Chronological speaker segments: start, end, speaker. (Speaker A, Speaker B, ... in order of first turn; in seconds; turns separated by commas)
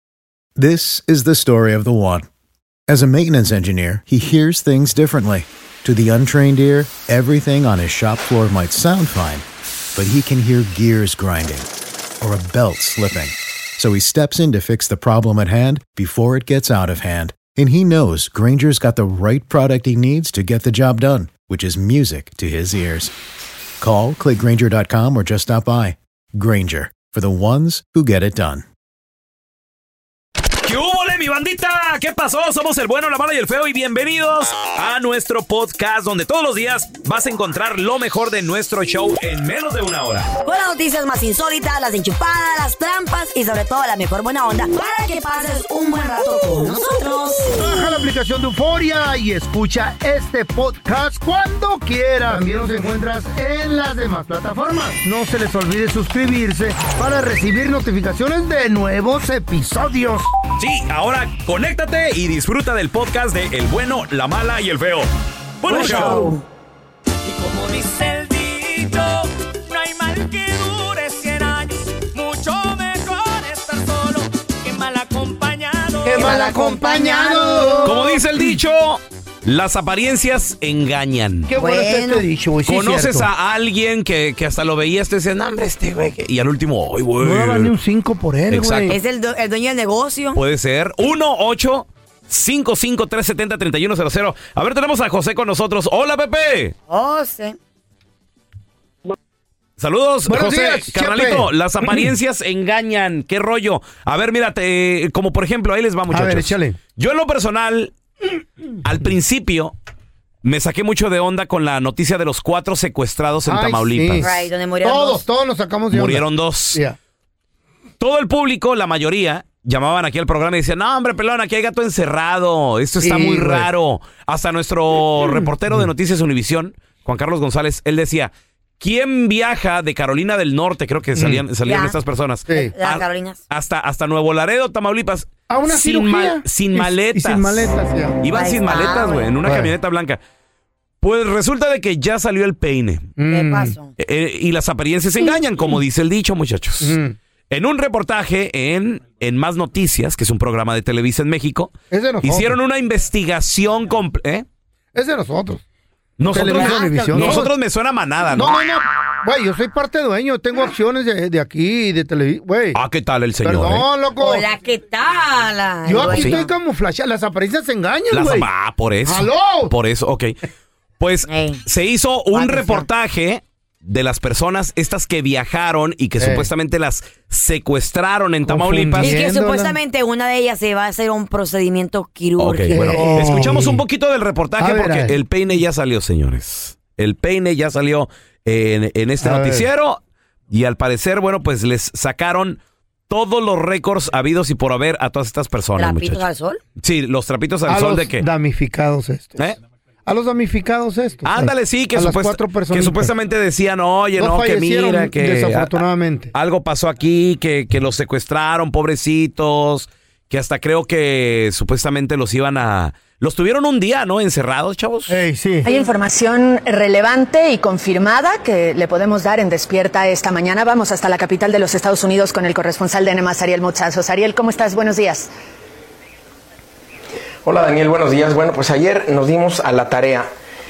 Speaker A: 0.6-2.2, Speaker A: 2.9-9.4, Speaker A: 9.9-11.7, Speaker A: 12.2-23.1, Speaker A: 23.8-28.6, Speaker B: 30.6-40.3, Speaker C: 40.4-47.6, Speaker D: 47.5-60.3, Speaker B: 60.6-65.1, Speaker B: 65.6-66.3, Speaker C: 65.7-66.4, Speaker D: 65.8-66.3, Speaker E: 67.2-76.3, Speaker D: 76.0-78.4, Speaker C: 76.1-78.0, Speaker B: 77.8-81.5, Speaker D: 81.5-83.3, Speaker C: 81.5-82.3, Speaker B: 82.7-87.7, Speaker D: 87.2-89.0, Speaker B: 88.5-88.9, Speaker C: 88.9-90.4, Speaker B: 90.3-96.7, Speaker C: 96.9-97.5, Speaker B: 99.8-107.9, Speaker D: 100.3-102.1, Speaker D: 106.1-106.8, Speaker B: 108.8-109.7, Speaker B: 110.4-114.3, Speaker D: 113.5-117.0, Speaker C: 114.2-115.2, Speaker B: 115.9-116.8, Speaker B: 118.0-140.2, Speaker D: 123.0-123.7, Speaker D: 131.2-131.4, Speaker C: 131.6-131.9, Speaker D: 132.5-132.7, Speaker C: 132.5-133.4, Speaker D: 135.5-138.3, Speaker C: 138.3-139.3, Speaker D: 139.4-139.7, Speaker B: 141.0-143.1, Speaker D: 143.2-143.8, Speaker C: 143.3-143.9, Speaker B: 144.0-147.0, Speaker D: 146.8-147.2, Speaker B: 147.5-154.4, Speaker D: 151.9-152.6, Speaker D: 154.9-155.6, Speaker B: 156.2-158.6, Speaker D: 156.2-157.5, Speaker C: 156.3-157.5, Speaker D: 158.3-162.8, Speaker B: 162.7-163.9, Speaker D: 163.4-164.5, Speaker C: 164.2-166.5, Speaker D: 165.8-168.5, Speaker B: 166.0-166.4, Speaker B: 168.1-170.3, Speaker D: 169.0-169.7, Speaker B: 171.0-179.2, Speaker C: 171.2-171.6, Speaker C: 172.3-172.9, Speaker D: 176.2-176.5, Speaker D: 178.5-179.8, Speaker C: 179.0-183.3, Speaker B: 182.4-196.2, Speaker D: 182.7-183.8, Speaker D: 184.6-185.1, Speaker D: 189.2-189.7, Speaker C: 195.8-196.6, Speaker B: 196.8-198.2, Speaker D: 197.7-199.5, Speaker D: 200.1-203.1, Speaker B: 201.2-215.2, Speaker D: 204.2-206.3, Speaker D: 215.1-215.7, Speaker F: 215.7-225.3, Speaker G: 227.4-230.3